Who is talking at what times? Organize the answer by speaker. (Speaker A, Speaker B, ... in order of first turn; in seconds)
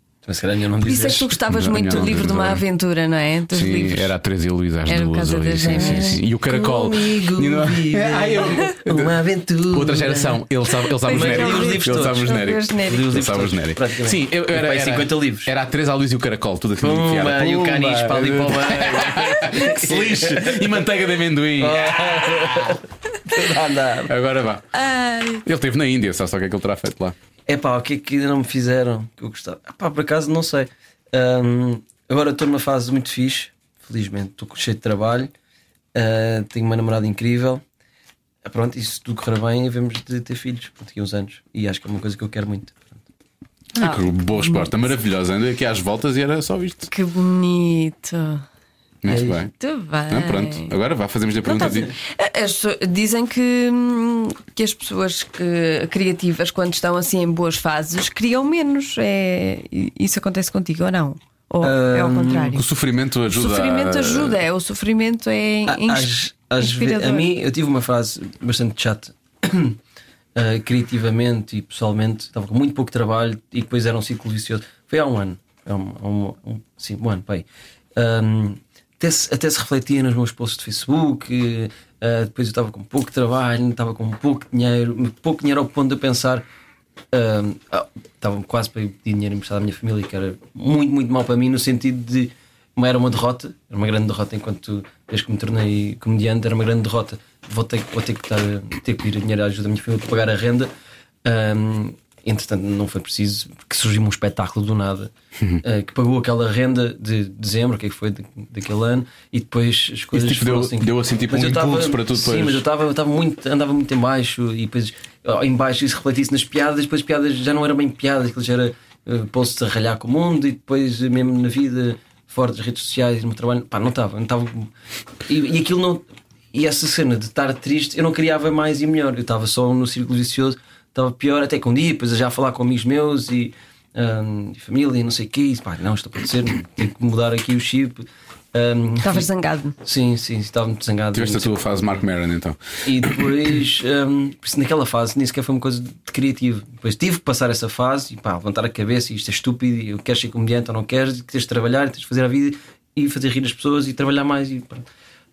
Speaker A: 0.3-1.3, 5.7-10.4, 11.1-15.5, 16.8-20.8, 21.6-24.1, 27.5-35.3, 35.9-37.6, 38.4-43.0, 49.1-49.4, 61.6-62.6, 65.7-69.8, 70.3-86.4, 87.1-100.7, 101.2-105.1, 105.6-124.7, 125.3-139.3, 139.8-142.0, 142.8-154.8
Speaker B: 0.8-4.1, 4.9-6.2, 11.1-13.1, 24.7-25.4, 43.8-44.7, 46.9-48.4, 49.5-50.7, 51.4-62.6, 63.3-67.3, 139.0-139.7
Speaker C: 1.4-2.6, 3.5-9.2, 9.7-22.7, 24.1-24.6, 25.4-27.1, 43.8-46.9, 49.0-49.5, 50.1-51.9, 62.5-64.4, 110.1-112.6, 141.1-143.1